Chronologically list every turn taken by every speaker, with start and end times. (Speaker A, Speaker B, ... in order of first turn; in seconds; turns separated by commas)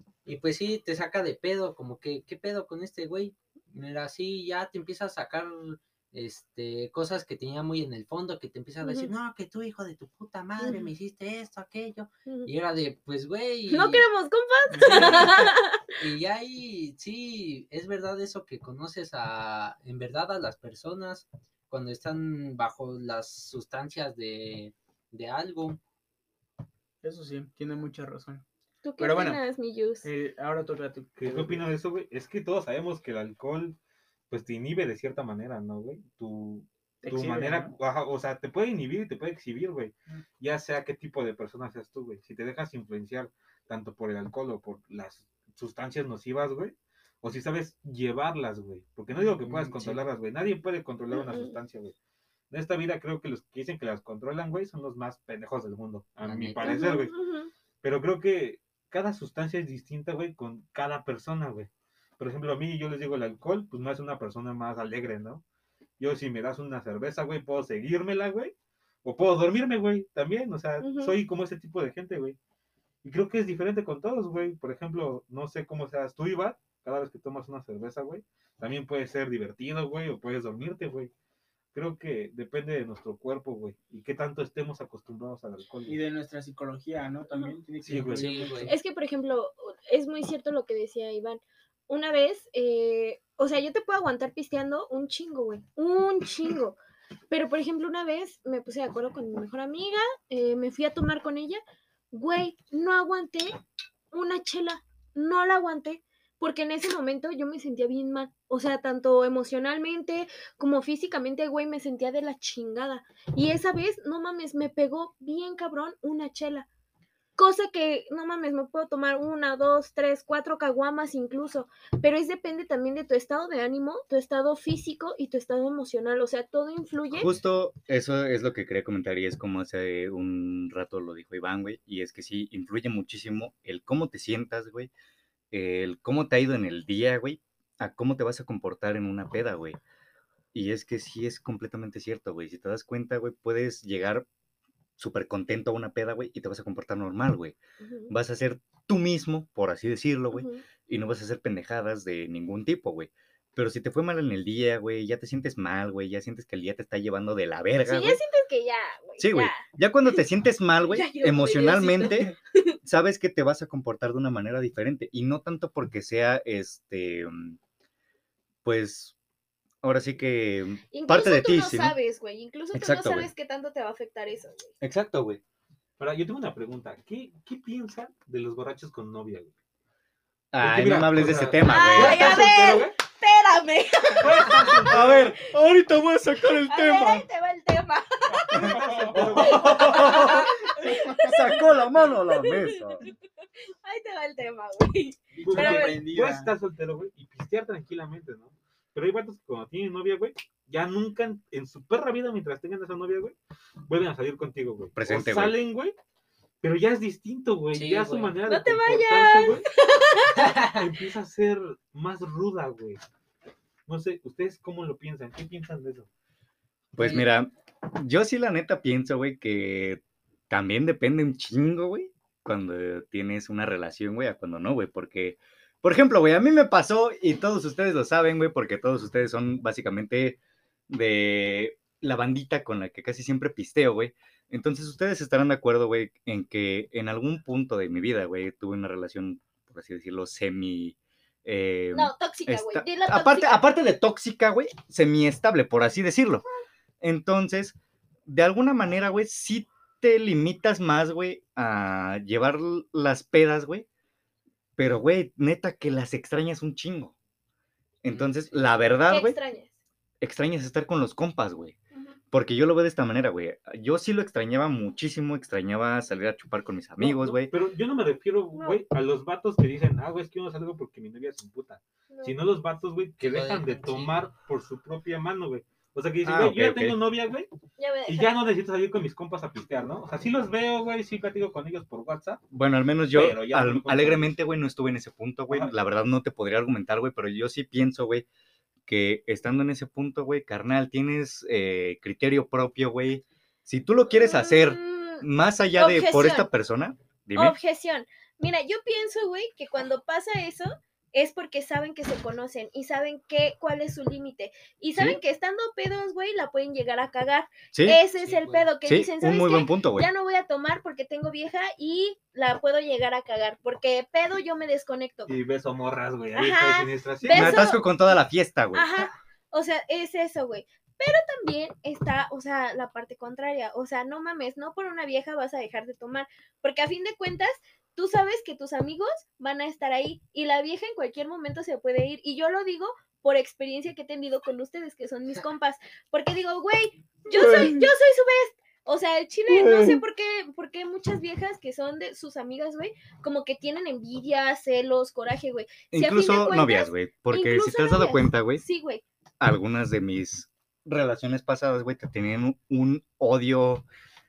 Speaker A: 0.2-14.1, Speaker B: 8.8-9.1, Speaker B: 10.6-10.9, Speaker B: 13.7-15.8, Speaker C: 14.7-15.5, Speaker A: 14.8-25.8, Speaker C: 27.0-28.4, Speaker B: 28.8-30.1, Speaker C: 29.0-29.4, Speaker C: 30.0-31.7, Speaker D: 31.2-33.8, Speaker D: 34.3-52.0, Speaker C: 37.0-37.7, Speaker A: 49.5-50.0, Speaker B: 51.1-51.6, Speaker D: 52.5-57.2, Speaker A: 56.2-56.9, Speaker B: 56.6-57.5, Speaker D: 57.8-65.4, Speaker D: 66.0-72.4, Speaker B: 70.8-71.2, Speaker D: 73.0-81.1, Speaker D: 81.7-86.0, Speaker C: 85.9-88.8, Speaker D: 87.8-88.5, Speaker A: 88.1-88.8, Speaker B: 88.7-96.8, Speaker B: 97.3-101.6, Speaker B: 102.1-103.5, Speaker B: 104.1-116.7, Speaker B: 117.4-127.3, Speaker E: 127.1-134.9, Speaker E: 135.5-139.8, Speaker E: 140.5-144.3, Speaker E: 145.0-147.6, Speaker B: 147.8-148.1, Speaker E: 148.1-158.2, Speaker B: 150.3-150.6, Speaker B: 157.8-160.2, Speaker E: 159.2-167.6, Speaker B: 160.9-162.8, Speaker E: 168.6-169.2, Speaker E: 169.8-172.0, Speaker B: 170.9-174.7, Speaker E: 172.7-173.3, Speaker E: 174.8-175.4, Speaker D: 176.0-179.5, Speaker E: 180.5-182.4, Speaker D: 180.6-183.0, Speaker B: 181.7-185.2, Speaker D: 184.2-185.3, Speaker E: 184.9-187.3, Speaker B: 186.6-193.1, Speaker E: 188.5-193.1, Speaker D: 188.5-190.2, Speaker B: 193.8-196.0, Speaker C: 195.4-196.5, Speaker D: 195.4-205.9, Speaker E: 205.0-205.6, Speaker D: 206.6-209.7, Speaker A: 207.7-208.4, Speaker B: 208.5-210.6, Speaker A: 210.4-210.8, Speaker D: 210.4-213.0, Speaker D: 213.9-216.1, Speaker E: 216.9-230.4, Speaker A: 217.0-217.3, Speaker E: 230.9-246.4, Speaker B: 241.9-243.7, Speaker E: 247.0-247.8, Speaker E: 248.3-253.9, Speaker E: 254.8-257.1, Speaker E: 258.0-259.4, Speaker B: 259.1-259.7, Speaker E: 260.2-261.8, Speaker E: 262.3-267.5, Speaker D: 267.0-277.5, Speaker B: 268.5-268.8, Speaker B: 272.1-272.5, Speaker A: 273.2-274.2, Speaker E: 276.2-277.0, Speaker B: 277.8-278.4, Speaker D: 278.1-282.4, Speaker E: 282.5-288.3, Speaker D: 283.1-284.3, Speaker D: 285.5-285.8, Speaker E: 288.9-297.6, Speaker B: 294.1-295.3, Speaker B: 295.8-296.5, Speaker B: 297.4-315.3, Speaker E: 307.7-308.0, Speaker A: 308.2-308.7, Speaker E: 308.9-310.1, Speaker D: 315.3-317.7, Speaker B: 316.4-317.9, Speaker E: 317.3-318.9, Speaker B: 318.7-349.0, Speaker C: 337.4-337.8, Speaker C: 339.5-340.0, Speaker E: 345.9-348.6, Speaker E: 349.4-353.9